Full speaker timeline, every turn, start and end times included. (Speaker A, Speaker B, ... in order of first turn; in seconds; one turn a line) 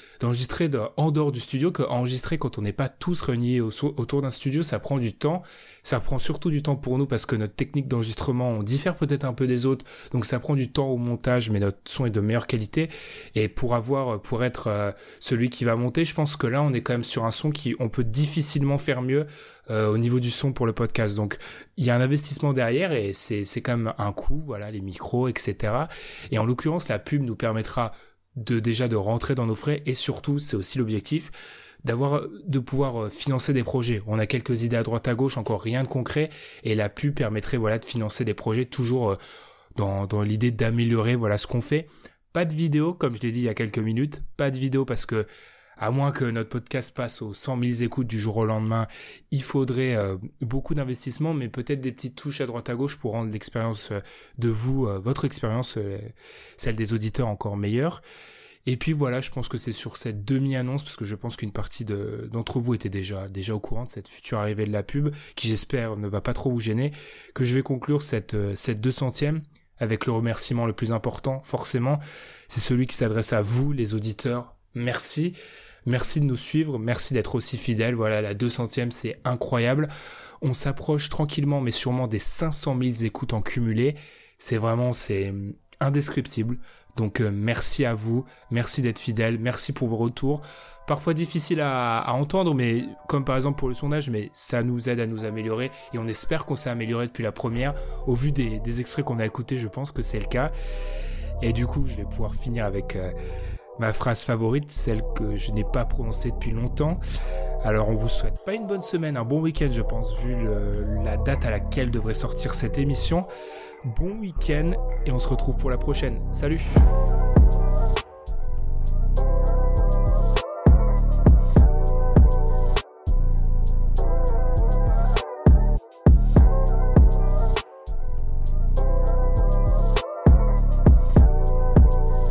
Speaker A: 0.2-31.3
Speaker A: 31.8-39.2
Speaker A: 39.8-45.3
Speaker A: 45.8-58.0
Speaker A: 58.7-75.3
Speaker A: 75.9-79.9
Speaker A: 80.4-100.5
Speaker A: 101.4-103.1
Speaker A: 103.8-107.0
Speaker A: 107.6-113.3
Speaker A: 113.9-116.8